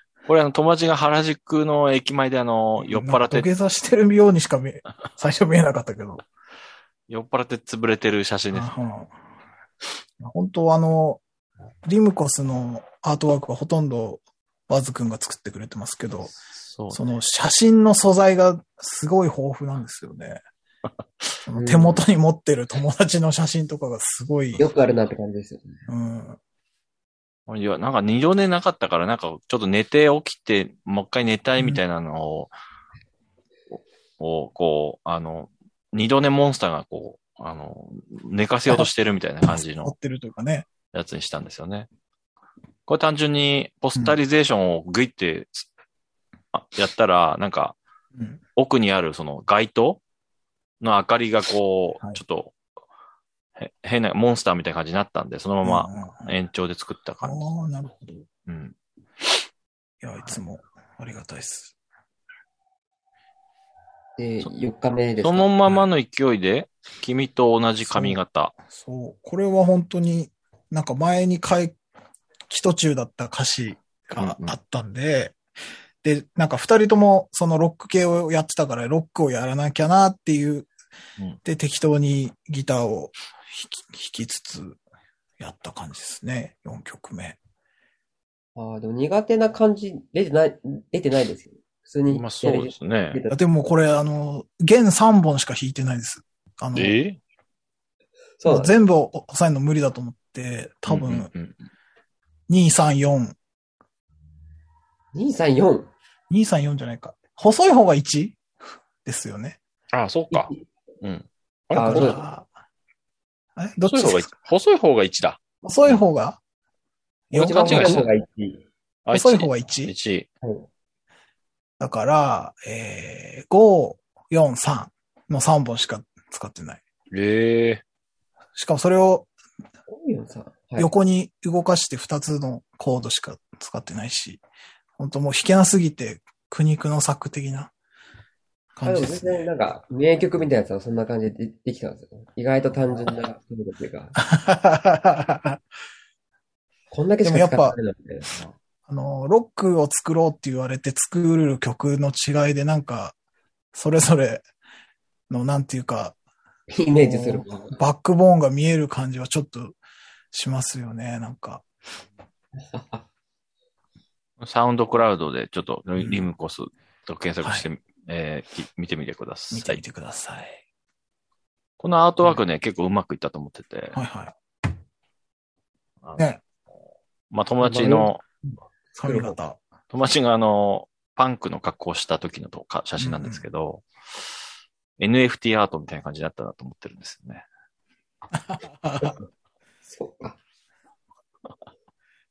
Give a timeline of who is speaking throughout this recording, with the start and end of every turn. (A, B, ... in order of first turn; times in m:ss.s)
0:00.3-0:03.5 A
0:02.8-0:06.2 B
0:07.1-0:08.7 A
0:08.5-0:09.2 B
0:10.2-0:11.2 B
0:11.8-0:16.3 B
0:16.5-0:17.0 A
0:16.9-0:20.4 B
0:21.5-0:24.7 B
0:21.5-0:22.0 C
0:24.6-0:25.9 C
0:25.9-0:26.4 B
0:27.5-0:32.5 A
0:33.7-0:39.9 A
0:39.5-0:40.7 B
0:40.9-0:41.9 A
0:42.9-0:45.7 A
0:46.5-0:47.8 A
0:48.1-0:48.4 B
0:48.6-0:50.0 A
0:50.8-0:52.6 A
0:53.6-0:57.4 A
0:55.6-0:56.4 B
0:57.2-0:58.3 B
0:58.5-0:58.8 A
1:00.0-1:01.8 B
1:04.2-1:05.5 C
1:05.2-1:08.5 A
1:07.8-1:08.2 B
1:08.7-1:11.8 B
1:12.5-1:15.4 B
1:14.2-1:14.5 A
1:16.0-1:20.7 B
1:21.4-1:24.8 B
1:25.4-1:27.4 B
1:28.6-1:33.4 C
1:32.1-1:33.2 A
1:33.3-1:37.0 B
1:36.7-1:37.2 A
1:38.4-1:38.8 C
1:38.5-1:41.3 B
1:40.9-1:41.6 A
1:42.5-1:43.4 B
1:45.1-1:45.9 C
1:46.3-1:48.4 B
1:49.0-1:49.6 B
1:49.9-1:50.5 A
1:50.3-1:50.7 C
1:51.0-1:52.2 A
1:51.7-1:52.2 C
1:51.8-1:52.5 B
1:53.6-1:54.3 B
1:53.9-1:56.0 A
1:55.6-1:56.4 B
1:57.3-1:58.1 B
1:57.3-1:58.6 C
1:57.6-1:58.1 A
1:59.1-2:00.3 A
1:59.1-1:59.9 B
2:01.8-2:06.8 B
2:07.1-2:07.8 A
2:08.6-2:09.3 B
2:09.9-2:10.9 C
2:10.8-2:14.4 B
2:15.0-2:17.7 B
2:18.8-2:19.5 B
2:18.8-2:24.2 C
2:24.2-2:25.6 B
2:26.9-2:28.3 C
2:27.2-2:27.8 B
2:28.9-2:33.2 B
2:33.7-2:34.4 B
2:35.3-2:36.2 B
2:36.7-2:37.8 C
2:37.0-2:39.8 B
2:40.3-2:41.6 B
2:42.6-2:43.0 C
2:44.4-2:49.8 A
2:46.0-2:46.3 B
2:49.5-2:50.6 B
2:51.8-2:54.0 A
2:53.9-2:54.3 B
2:57.3-2:58.2 A
2:57.6-2:58.1 C
2:59.0-2:59.3 C
2:59.0-2:59.6 B
2:59.9-3:03.9 A
3:03.0-3:03.4 B
3:05.0-3:07.4 A
3:08.3-3:09.2 B
3:09.9-3:10.4 C